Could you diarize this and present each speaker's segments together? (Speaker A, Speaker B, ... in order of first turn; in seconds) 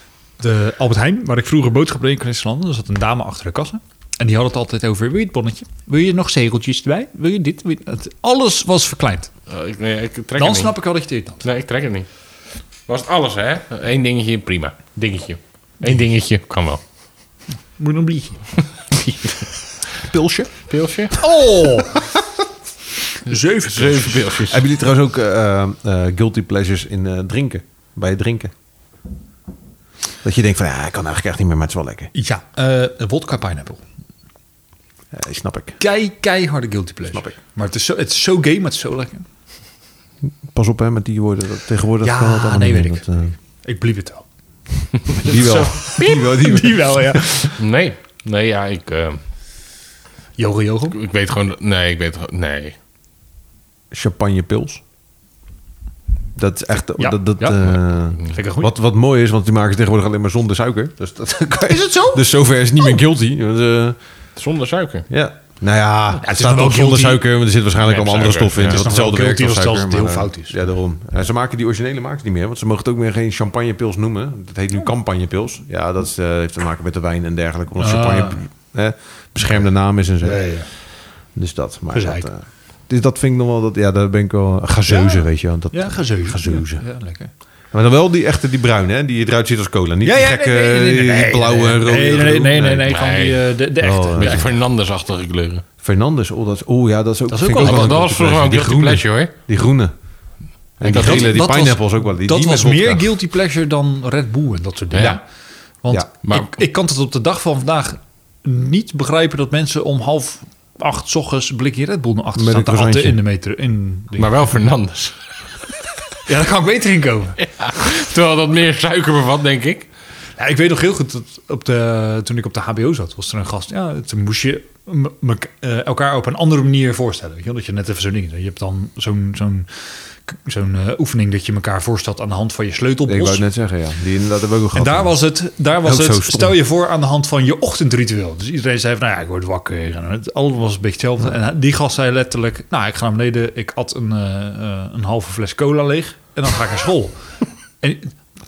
Speaker A: 0.4-9.3, 10.3-11.4, 17.7-18.5, 21.1-22.0, 23.2-24.3, 32.1-33.8, 35.8-39.2, 42.0-44.2, 45.2-47.5, 50.4-51.0, 57.0-57.7, 58.2-58.7, 61.6-62.2, 66.2-67.2, 68.6-70.6, 77.8-78.4, 80.1-80.7, 81.9-82.3, 84.8-87.3, 90.0-94.5, 97.3-98.0, 101.0-105.2, 105.8-114.4, 116.2-117.4, 120.4-133.4, 134.7-147.2, 147.8-148.1
Speaker B: 9.5-10.8, 11.4-12.1, 12.9-16.8, 18.9-19.5, 20.7-21.1, 23.3-24.6, 45.1-46.3, 47.6-49.2, 50.9-52.8, 57.7-58.3, 64.3-65.1, 67.8-68.8, 92.9-95.6, 97.5-99.3, 100.8-101.4, 104.9-105.2, 106.2-106.6, 114.2-115.2, 117.4-119.9
Speaker C: 20.0-20.7, 24.5-28.5, 30.2-32.1, 35.1-35.8, 37.1-37.4, 40.5-43.3, 45.1-47.5, 53.9-54.8, 56.4-64.0, 65.1-86.9, 87.7-92.9, 93.8-94.5, 95.8-99.9, 100.8-103.1, 112.3-113.2, 133.1-136.6